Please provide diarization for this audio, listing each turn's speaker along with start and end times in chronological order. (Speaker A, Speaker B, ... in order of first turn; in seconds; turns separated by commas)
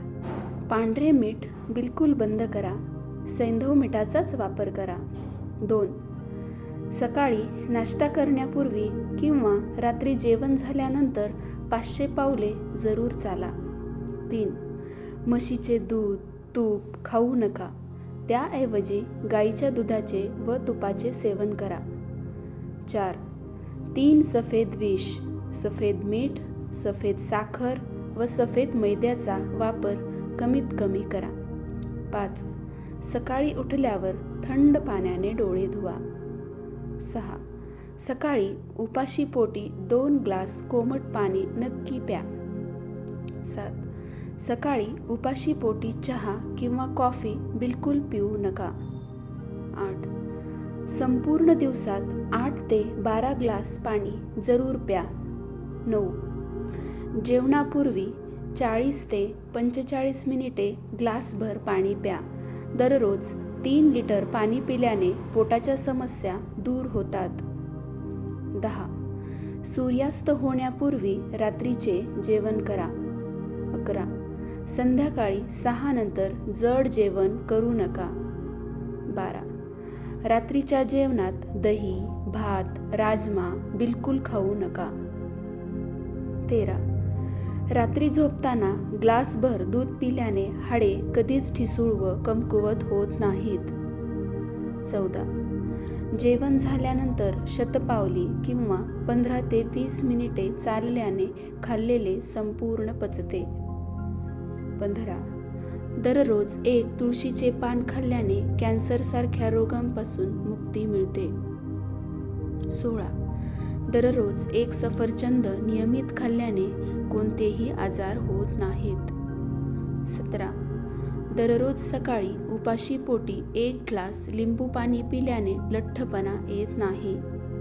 Speaker A: 0.7-5.0, Speaker A: 5.6-6.0, Speaker A: 6.9-13.5, Speaker A: 14.3-14.6, Speaker A: 15.2-17.7, Speaker A: 18.3-21.8, Speaker A: 22.9-23.2, Speaker A: 23.9-31.3, Speaker A: 32.1-32.5, Speaker A: 33.0-36.0, Speaker A: 37.0-37.4, Speaker A: 38.0-42.3, Speaker A: 43.4-43.9, Speaker A: 44.4-48.7, Speaker A: 49.8-50.1, Speaker A: 50.9-55.1, Speaker A: 55.9-56.2, Speaker A: 57.1-62.2, Speaker A: 62.7-67.4, Speaker A: 68.5-68.9, Speaker A: 69.6-72.9, Speaker A: 73.7-74.1, Speaker A: 74.7-78.1, Speaker A: 79.1-79.5, Speaker A: 80.2-84.9, Speaker A: 86.5-86.8, Speaker A: 87.7-93.7, Speaker A: 94.9-95.3, Speaker A: 96.1-103.5, Speaker A: 104.8-105.2, Speaker A: 106.0-111.3, Speaker A: 112.7-113.1, Speaker A: 113.9-119.1, Speaker A: 120.1-120.5, Speaker A: 121.3-127.2